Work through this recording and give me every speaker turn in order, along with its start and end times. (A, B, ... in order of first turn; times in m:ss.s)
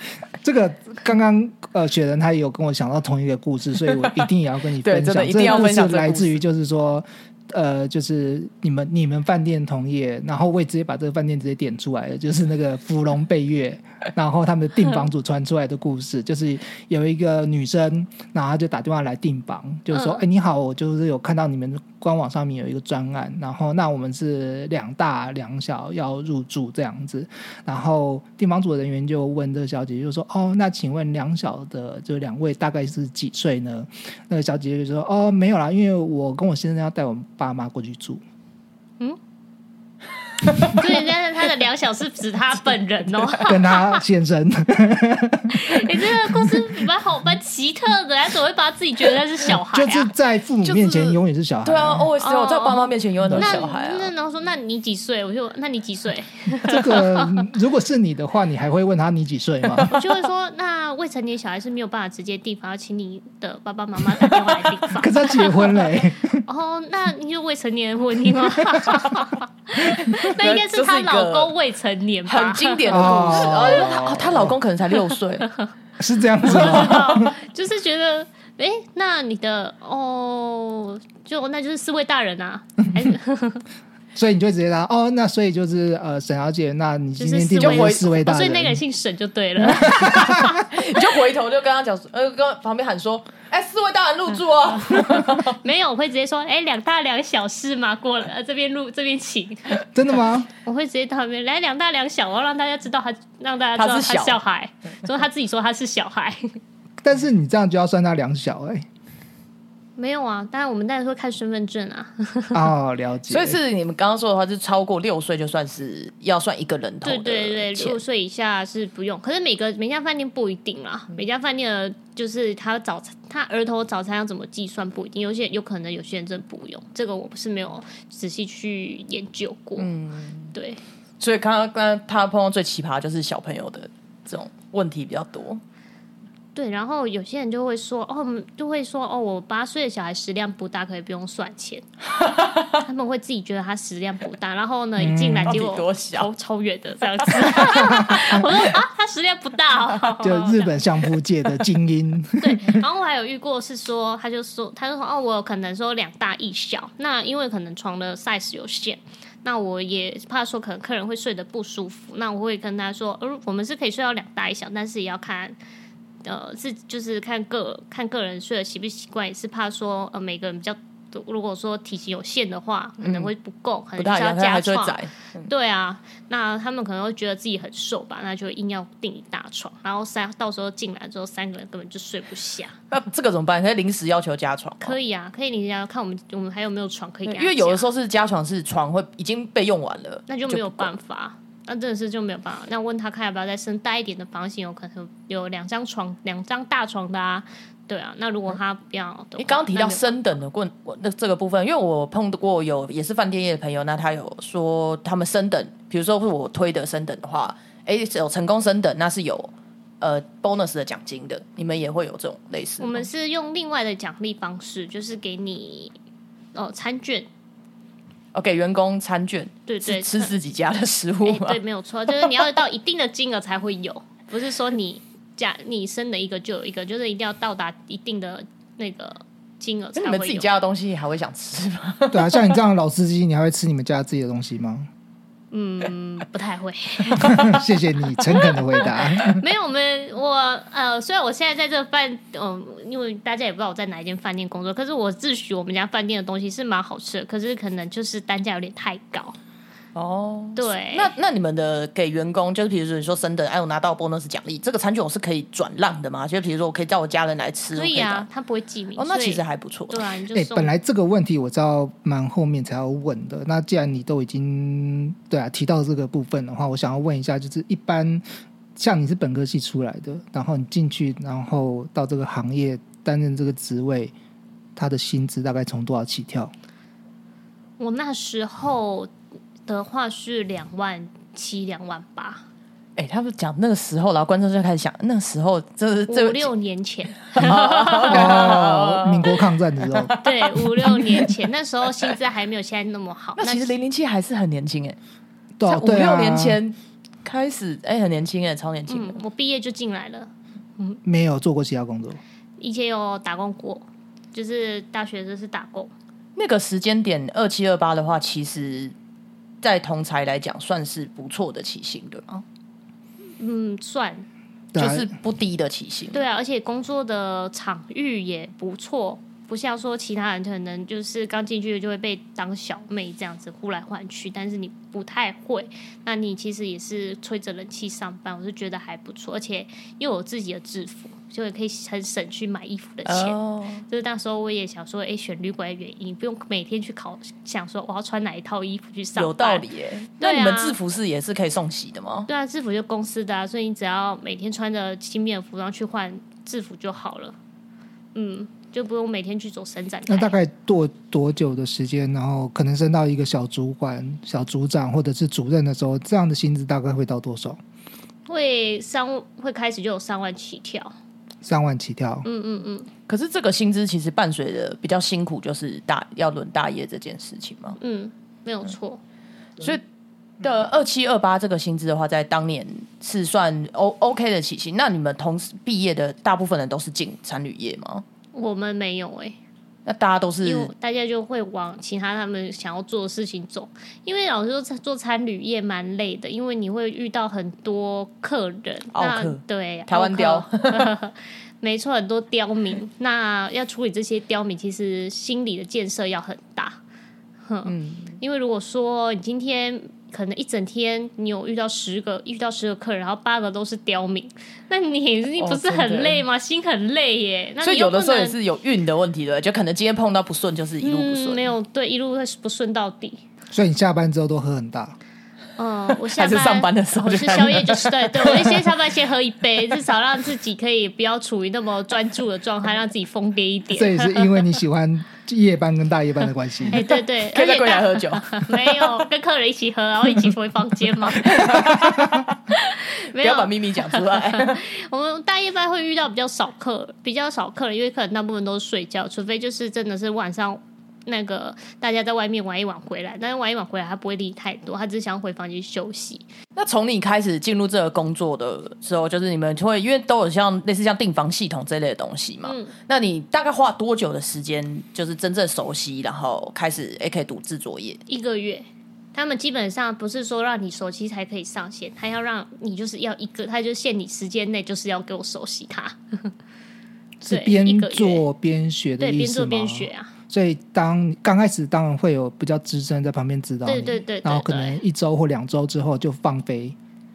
0:00.4-0:38.2 A
0:04.8-0:06.4 B
0:19.9-0:20.2 C
0:40.6-0:44.0 C
0:43.4-0:46.8 A
0:45.5-0:50.1 C
0:49.5-0:52.1 A
0:50.6-0:54.1 B
0:52.2-0:57.5 C
0:53.2-0:53.6 A
0:56.6-0:59.9 A
0:59.9-1:05.8 C
1:04.2-1:04.7 B
1:05.0-1:06.4 A
1:06.5-1:14.1 C
1:10.0-1:11.5 B
1:12.3-1:15.5 B
1:12.9-1:14.6 A
1:16.0-1:17.3 A
1:16.4-1:23.6 C
1:16.5-1:17.2 B
1:24.2-1:28.8 A
1:27.2-1:30.7 C
1:27.6-1:28.2 B
1:29.6-1:30.6 A
1:30.2-1:35.6 B
1:35.3-1:39.8 C
1:39.9-1:40.5 A
1:40.6-1:46.6 C
1:43.8-1:44.4 B
1:47.0-1:48.9 A
1:50.0-1:52.6 C
1:52.5-1:53.6 A
1:53.3-1:58.0 B
1:57.0-2:09.9 C
2:09.8-2:10.6 B
2:10.5-2:10.8 C
2:11.2-2:15.6 B
2:16.6-2:21.9 C
2:22.2-2:22.8 B
2:22.8-2:30.7 C
2:25.0-2:25.6 A
2:25.5-2:26.3 B
2:27.4-2:27.8 B
2:28.0-2:28.3 A
2:30.2-2:32.8 A
2:32.4-2:45.6 C
2:46.2-3:02.8 C
2:53.0-2:53.3 B
2:54.0-2:55.5 B
3:02.9-3:05.0 B
3:04.8-3:07.9 C
3:07.3-3:10.9 B
3:10.3-3:20.2 C
3:19.4-3:33.1 B
3:32.8-3:36.0 C
3:36.6-3:37.3 C
3:38.3-3:41.6 B
3:39.7-3:40.3 C
3:41.2-3:50.5 C
3:50.0-3:52.6 B
3:52.1-3:54.9 A
3:55.5-3:57.6 C
3:57.2-3:59.4 A
3:58.4-4:09.4 C
4:10.0-4:18.3 B
4:10.6-4:11.1 C
4:17.7-4:20.7 C
4:19.0-4:20.1 B
4:20.3-4:28.2 A
4:28.8-4:34.1 A
4:34.8-4:36.5 A
4:37.8-4:39.1 C
4:39.7-4:42.4 C
4:43.0-4:46.5 B
4:46.1-4:48.6 C
4:47.3-4:51.3 B
4:48.1-4:50.2 A
4:50.2-4:53.7 C
4:53.4-4:55.0 B
4:55.6-4:56.6 A
4:55.7-4:59.2 B
4:58.9-5:01.0 C
5:01.0-5:02.2 A
5:02.6-5:05.9 C
5:06.4-5:08.9 B
5:09.6-5:12.4 B
5:13.4-5:14.3 C
5:14.7-5:15.1 A
5:14.8-5:16.2 B
5:16.1-5:39.6 C
5:33.1-5:33.8 B
5:39.2-5:42.3 B
5:40.2-5:40.8 C
5:42.3-5:47.4 C
5:48.2-5:50.4 C
5:50.1-5:57.6 A
5:58.3-6:00.9 C
6:01.4-6:02.3 A
6:02.2-6:02.9 C
6:03.1-6:07.8 B
6:07.8-6:09.0 C
6:10.4-6:18.0 B
6:18.3-6:19.4 C
6:19.9-6:20.7 B
6:20.4-6:36.8 C
6:29.0-6:30.9 B
6:37.5-6:48.4 C
6:37.7-6:38.2 B
6:45.4-6:46.2 B
6:47.6-6:51.5 B
6:50.8-6:53.2 C
6:53.5-6:55.0 A
6:55.6-7:04.5 C
6:55.9-6:58.7 B
7:03.7-7:06.8 A
7:06.7-7:11.8 C
7:06.8-7:09.0 B
7:11.1-7:12.4 B
7:12.5-7:26.2 C
7:13.2-7:14.6 B
7:26.6-7:38.0 B
7:32.4-7:32.7 C
7:38.1-7:46.3 C
7:47.2-7:56.8 A
7:47.3-7:48.2 C
7:49.0-7:50.1 C
7:53.7-7:54.8 C